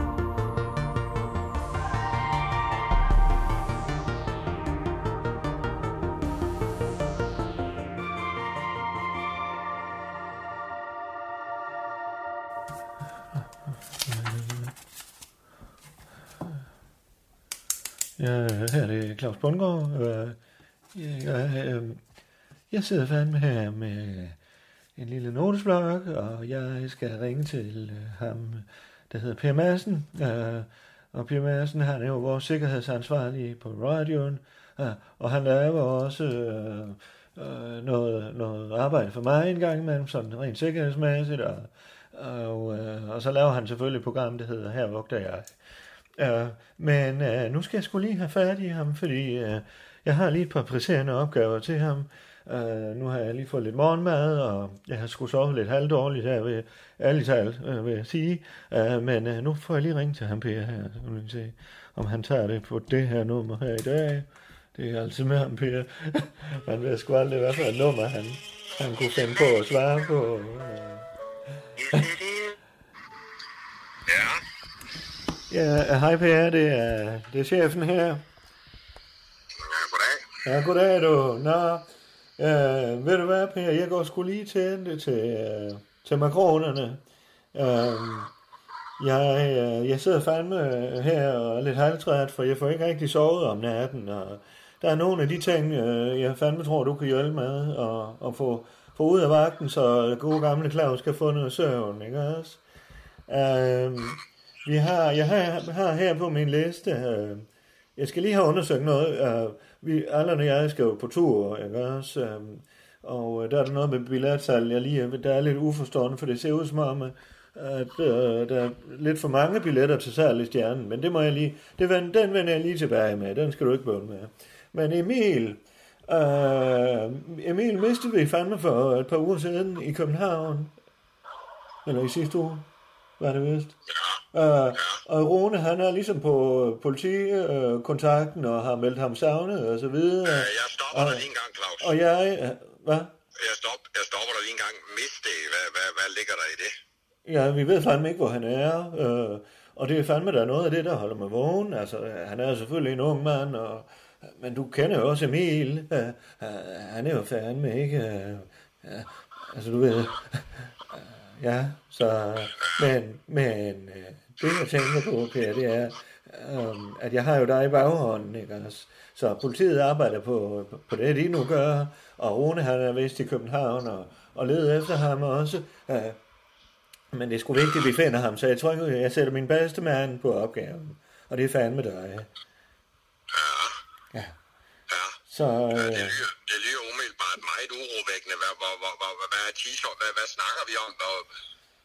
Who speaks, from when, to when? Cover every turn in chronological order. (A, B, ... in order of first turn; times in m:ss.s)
0:14.0-0:14.7 A
0:18.2-0:20.4 A
0:20.9-0:22.0 A
0:22.7-0:24.4 A
0:25.0-0:45.5 A
0:46.2-1:11.0 A
1:11.8-1:12.6 B
1:14.1-1:14.4 B
1:15.5-1:18.2 A
1:19.6-1:20.3 B
1:20.4-1:27.0 A
1:27.5-1:28.3 A
1:29.0-1:42.6 A
1:43.3-2:10.7 A
2:11.8-2:12.7 A
2:13.2-2:13.8 A
2:13.9-2:14.2 B
2:14.3-2:21.3 A
2:20.2-2:21.9 B
2:21.8-2:23.1 A
2:23.4-2:26.7 B
2:27.2-2:56.2 A
2:57.1-3:02.3 A
3:03.3-3:03.8 B
3:04.9-3:05.2 B
3:05.3-3:06.2 A
3:05.8-3:11.3 B